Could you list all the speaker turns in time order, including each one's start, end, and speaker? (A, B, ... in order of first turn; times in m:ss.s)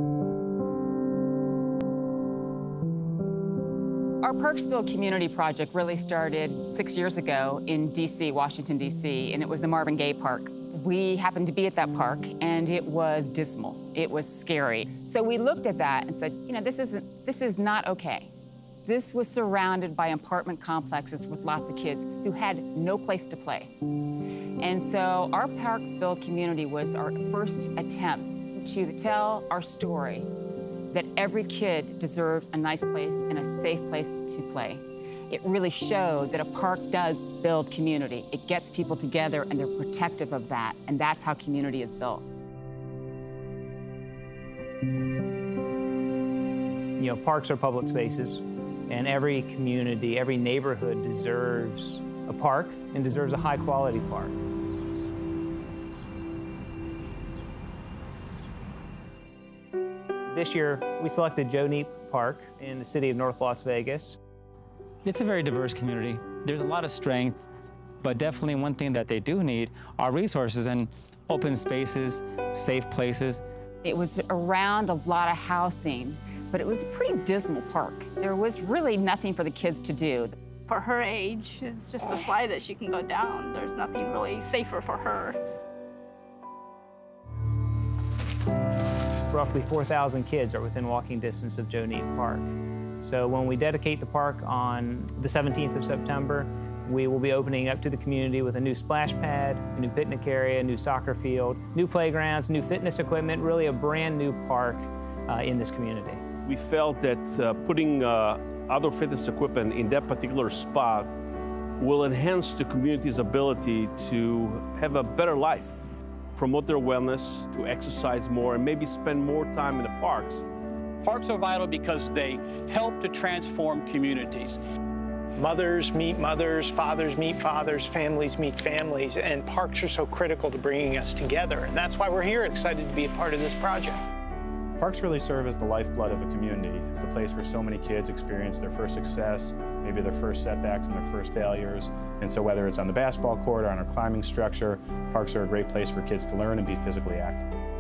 0:04.2-0:18.3 A
0:18.8-0:23.7 A
0:24.6-0:30.3 A
0:30.9-0:42.2 A
0:47.0-0:54.3 B
1:00.3-1:04.2 B
1:05.0-1:07.4 C
1:08.0-1:13.4 C
1:13.8-1:20.3 A
1:20.7-1:25.4 D
1:29.3-1:32.5 B
1:33.0-1:46.2 B
1:46.5-1:51.1 E
1:51.8-1:55.8 E
1:56.4-2:00.4 E
2:01.0-2:04.6 F
2:05.4-2:14.0 G
2:14.8-2:27.4 H